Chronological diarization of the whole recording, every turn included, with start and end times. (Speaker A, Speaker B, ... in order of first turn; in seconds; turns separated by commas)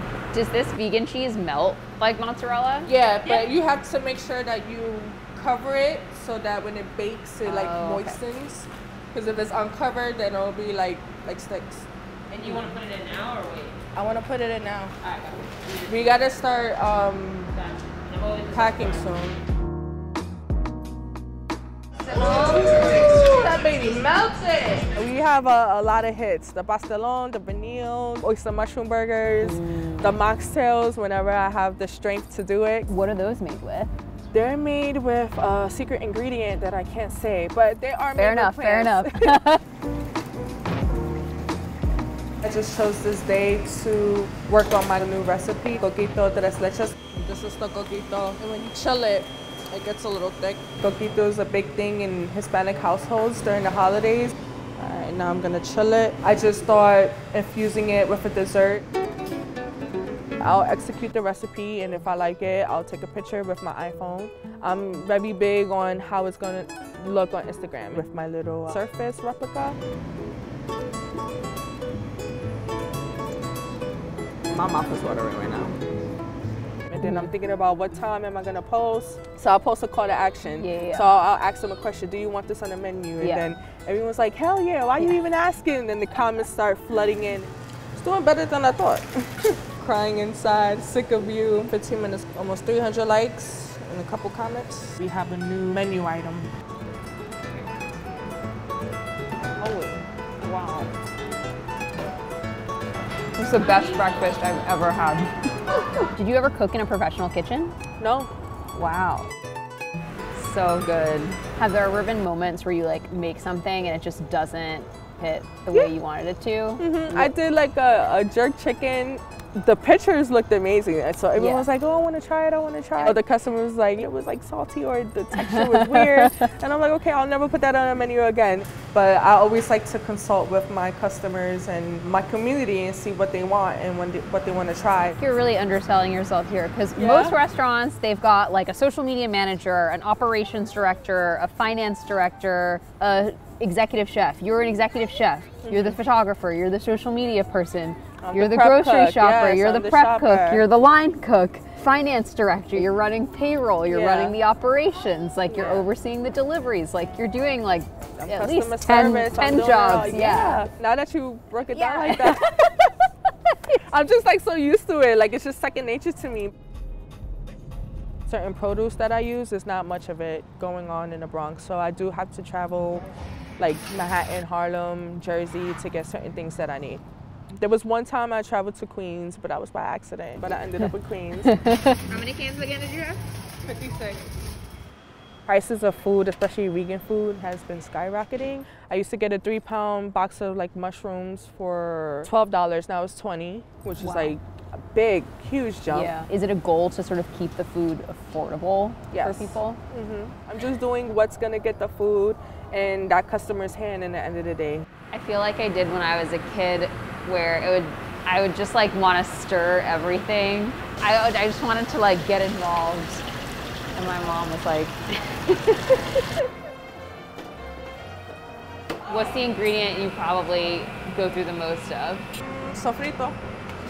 Speaker A: 0.3-2.9, Speaker B: 2.9-11.9, Speaker A: 7.4-8.2, Speaker C: 12.3-13.7, Speaker A: 12.4-12.8, Speaker B: 13.9-14.9, Speaker C: 15.1-15.3, Speaker B: 15.9-17.5, Speaker C: 18.1-19.0, Speaker B: 18.5-19.4, Speaker B: 22.1-32.9, Speaker A: 22.2-22.6, Speaker A: 29.4-30.2, Speaker A: 32.9-33.9, Speaker B: 34.3-39.3, Speaker A: 38.1-39.6, Speaker B: 42.4-58.9, Speaker B: 60.4-69.8, Speaker B: 74.5-75.8, Speaker B: 76.9-96.5, Speaker A: 77.0-77.3, Speaker A: 80.5-81.1, Speaker A: 83.2-83.5, Speaker A: 99.6-100.9, Speaker A: 103.3-105.3, Speaker A: 106.1-107.7, Speaker B: 108.0-108.3, Speaker A: 108.7-109.3, Speaker A: 110.3-117.3, Speaker B: 116.8-135.2, Speaker A: 121.3-121.7, Speaker A: 125.4-126.3, Speaker A: 135.2-160.6, Speaker B: 136.9-137.4, Speaker B: 145.6-146.0, Speaker B: 148.2-150.6, Speaker B: 153.9-154.3, Speaker B: 155.5-155.9, Speaker B: 158.2-162.9, Speaker A: 161.7-162.4, Speaker B: 163.9-166.5, Speaker B: 168.3-173.1, Speaker B: 173.6-177.0, Speaker B: 177.6-181.5, Speaker A: 181.4-182.0, Speaker B: 182.1-184.2, Speaker B: 185.5-194.4, Speaker A: 194.0-194.4, Speaker B: 194.9-196.2, Speaker A: 195.9-199.8, Speaker B: 199.1-204.8, Speaker A: 205.1-213.2, Speaker A: 213.9-216.2, Speaker A: 219.1-222.3, Speaker B: 222.4-223.4